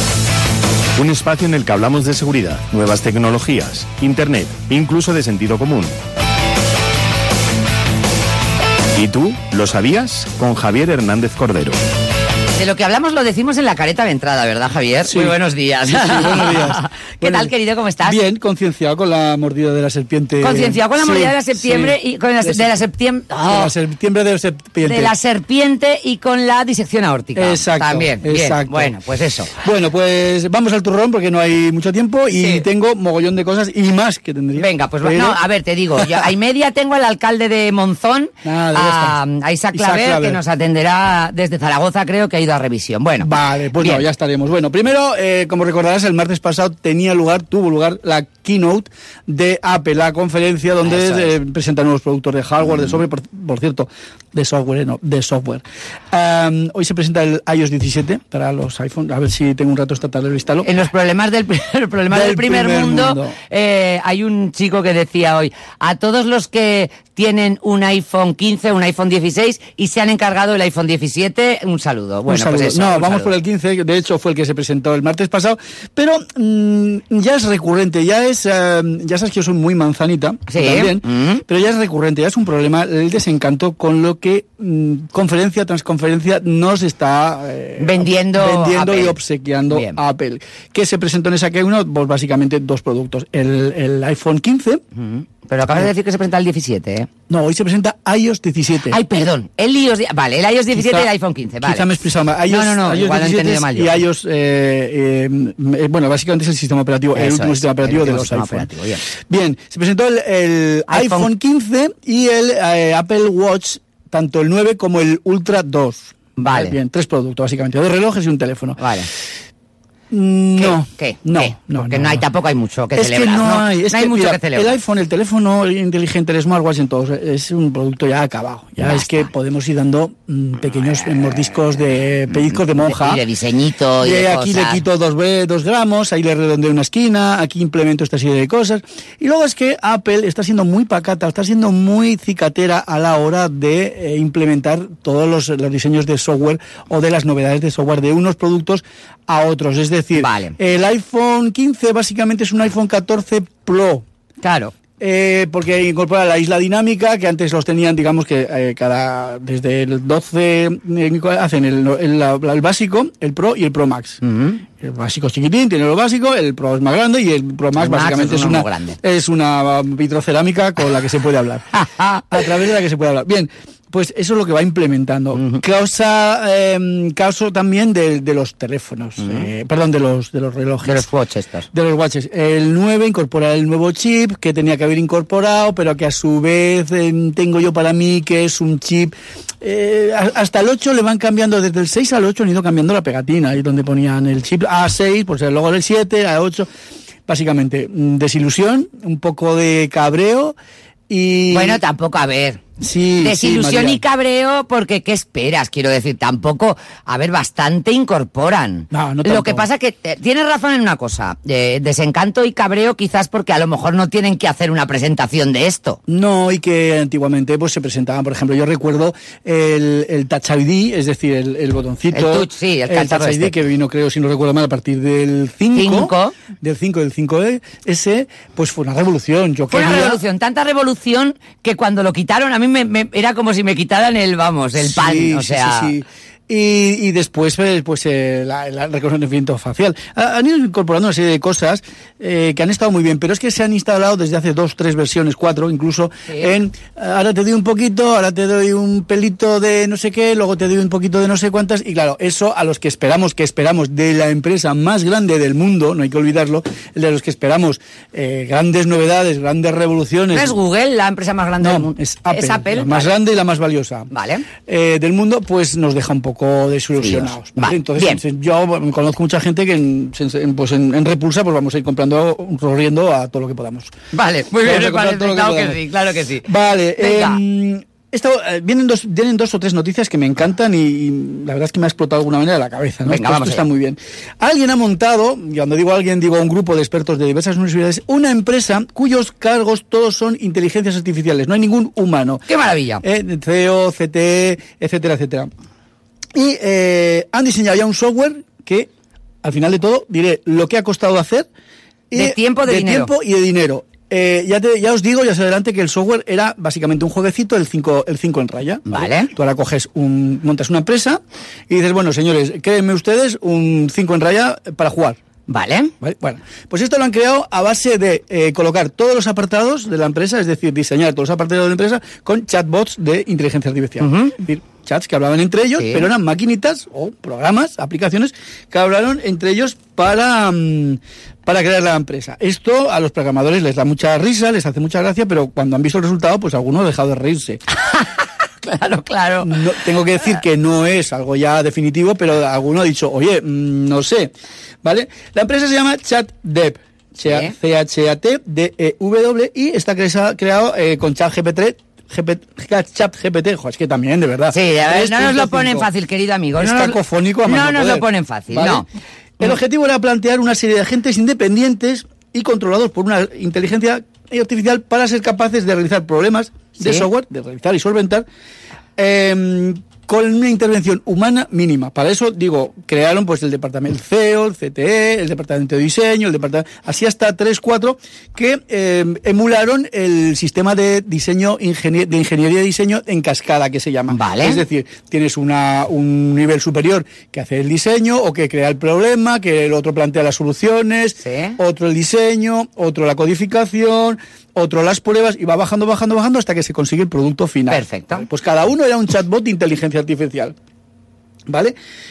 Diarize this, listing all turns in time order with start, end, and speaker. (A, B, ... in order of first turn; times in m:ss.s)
0:01.0-0:06.0 A
0:08.9-0:11.8 A
0:12.6-0:18.2 B
0:15.0-0:17.5 C
0:18.0-0:22.7 C
0:20.4-0:23.7 B
0:23.4-0:25.1 C
0:24.8-0:29.5 B
0:27.4-0:28.9 C
0:29.5-0:35.4 C
0:32.3-0:32.6 B
0:34.6-0:44.0 B
0:36.0-0:36.3 C
0:38.4-0:39.2 C
0:39.7-0:40.4 C
0:43.2-1:00.7 C
0:50.8-0:51.3 B
1:00.6-1:13.3 B
1:02.1-1:03.4 C
1:12.3-1:34.8 C
1:20.5-1:21.4 B
1:27.8-1:29.2 B
1:29.7-1:30.0 B
1:35.0-1:37.1 B
1:37.3-1:39.0 C
1:38.9-1:41.9 B
1:40.7-1:41.1 C
1:41.6-1:48.7 C
1:42.5-1:44.0 B
1:47.1-1:49.1 B
1:49.3-1:58.8 C
1:50.9-1:51.3 B
1:56.4-1:56.8 B
1:58.8-1:59.1 B
2:00.1-2:02.2 C
2:00.6-2:04.8 B
2:02.9-2:13.2 C
2:08.8-2:09.3 B
2:12.4-2:14.8 B
2:14.0-2:34.0 C
2:30.2-2:30.6 B
2:34.4-2:34.7 B
2:35.0-2:44.2 C
2:44.2-2:44.6 B
2:44.8-2:51.7 C
2:47.8-2:49.0 B
2:51.8-2:52.2 B
2:52.3-3:01.1 C
2:59.2-2:59.5 B
3:00.8-3:01.7 B
3:01.7-3:16.7 C
3:17.3-3:20.6 C
3:21.1-3:21.8 C
3:21.5-3:22.6 B
3:22.8-3:24.0 C
3:23.2-3:36.0 B
3:28.9-3:29.7 C
3:36.1-3:50.2 C
3:42.1-3:43.6 B
3:45.7-3:46.4 B
3:49.7-3:55.9 B
3:54.8-4:20.6 C
4:06.3-4:06.5 B
4:20.3-4:23.1 B
4:21.6-4:24.1 C
4:24.1-4:24.5 B
4:24.6-4:33.9 C
4:27.0-4:28.2 B
4:34.1-4:37.4 B
4:34.6-4:35.8 C
4:36.4-4:52.4 C
4:43.1-4:43.6 B
4:52.5-4:53.0 B
4:53.0-4:55.5 C
4:56.4-4:58.9 C
4:59.4-5:01.5 C
5:02.1-5:15.2 C
5:02.1-5:03.1 B
5:08.9-5:09.3 B
5:15.5-5:15.9 B
5:16.0-5:37.6 C
5:24.0-5:24.4 B
5:25.8-5:26.1 B
5:37.7-5:39.6 B
5:39.4-5:44.3 C
5:44.8-5:55.9 C
5:47.2-5:47.5 B
5:54.5-5:58.9 B
5:56.6-5:58.8 C
5:59.4-6:08.2 C
6:06.8-6:07.1 B
6:09.0-6:40.6 C
6:24.1-6:24.6 B
6:31.2-6:31.6 B
6:37.7-6:38.3 B
6:41.5-6:41.8 C